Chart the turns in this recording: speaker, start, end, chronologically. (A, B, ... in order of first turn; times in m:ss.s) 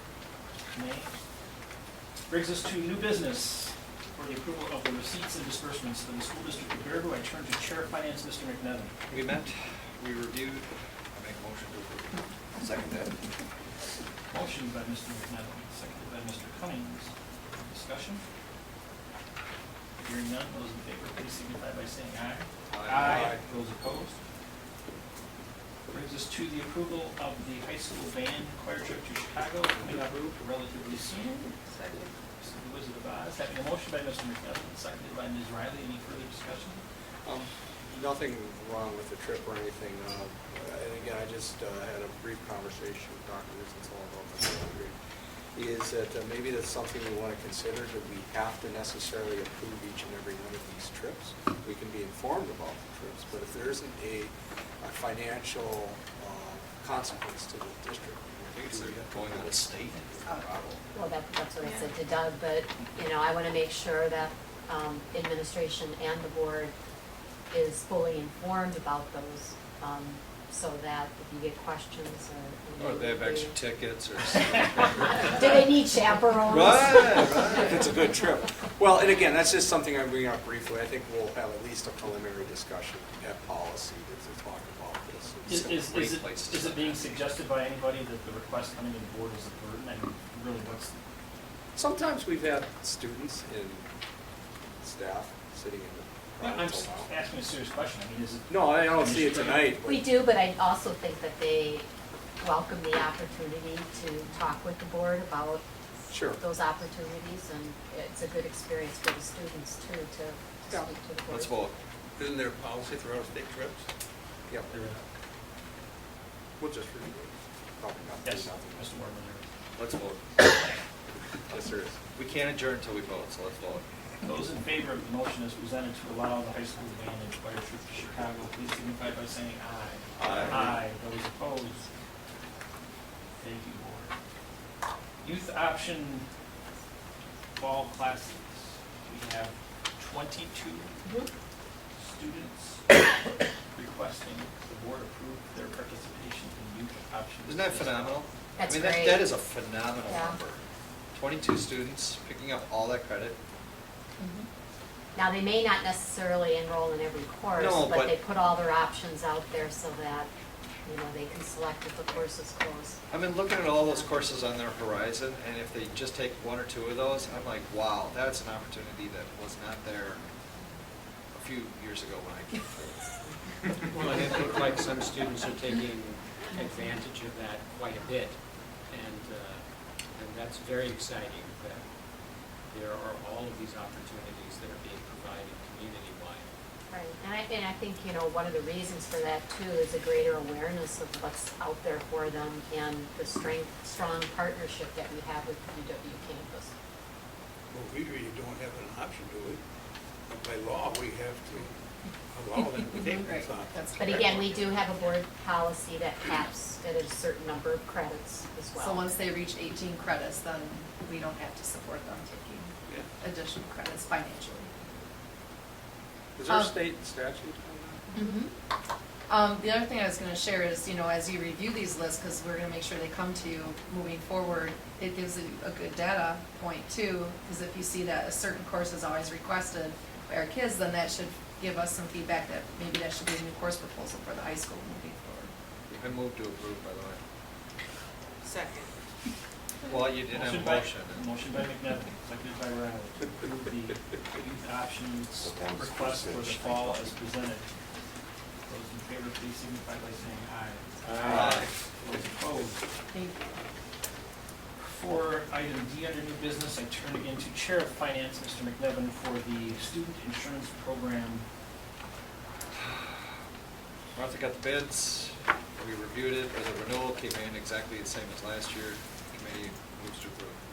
0:00.7-0:01.2 A
0:02.3-0:08.9 A
0:09.1-0:13.2 B
0:14.3-0:18.2 A
0:20.0-0:24.2 A
0:22.7-0:23.4 B
0:23.0-0:23.4 C
0:25.9-0:31.6 A
0:31.7-0:32.1 D
0:32.4-0:36.8 A
0:37.2-0:45.0 C
0:45.5-1:00.8 C
0:58.7-1:00.0 B
1:00.9-1:06.7 E
1:01.6-1:01.9 D
1:07.5-1:13.5 E
1:12.8-1:15.4 B
1:15.0-1:17.5 E
1:16.4-1:17.8 B
1:17.5-1:25.5 C
1:25.4-1:27.0 B
1:25.5-1:30.9 A
1:31.7-1:33.8 C
1:34.8-1:37.1 C
1:36.4-1:39.8 A
1:38.5-1:40.1 C
1:39.8-1:41.9 E
1:42.4-1:51.5 E
1:46.1-1:46.4 C
1:51.3-1:51.7 B
1:52.2-1:53.8 F
1:54.7-1:55.0 A
1:56.6-1:58.9 C
1:58.2-1:59.4 A
1:59.8-2:00.2 B
2:01.5-2:02.0 C
2:02.2-2:03.8 B
2:04.2-2:11.9 A
2:10.2-2:10.8 B
2:13.4-2:14.1 A
2:15.2-2:16.2 A
2:17.6-2:20.9 A
2:21.0-2:21.3 E
2:22.0-2:23.0 A
2:23.7-2:28.2 A
2:27.4-2:30.6 B
2:28.6-2:29.3 E
2:30.1-2:30.4 E
2:31.1-2:33.4 B
2:34.2-2:34.5 D
2:35.1-2:40.3 E
2:37.5-2:38.2 B
2:40.8-2:43.0 E
2:43.1-2:50.2 B
2:51.3-2:53.1 B
2:53.9-2:58.4 G
2:53.9-2:54.5 B
2:58.9-2:59.6 G
3:00.1-3:01.8 G
3:02.7-3:06.5 G
3:06.9-3:16.7 E
3:17.7-3:19.6 F
3:20.3-3:21.7 F
3:22.3-3:24.3 F
3:23.2-3:24.7 D
3:23.9-3:29.1 E
3:28.8-3:34.7 D
3:36.4-3:38.0 C
3:36.4-3:36.7 D
3:38.1-3:38.5 D
3:39.3-3:55.5 D
3:55.9-3:57.2 B
3:58.4-3:58.9 D
3:59.8-4:01.3 B
4:00.3-4:07.7 A
4:08.6-4:12.8 A
4:11.0-4:11.6 G
4:11.2-4:11.7 B
4:13.1-4:13.5 D
4:14.8-4:21.4 A
4:22.7-4:23.3 B
4:24.1-4:30.6 B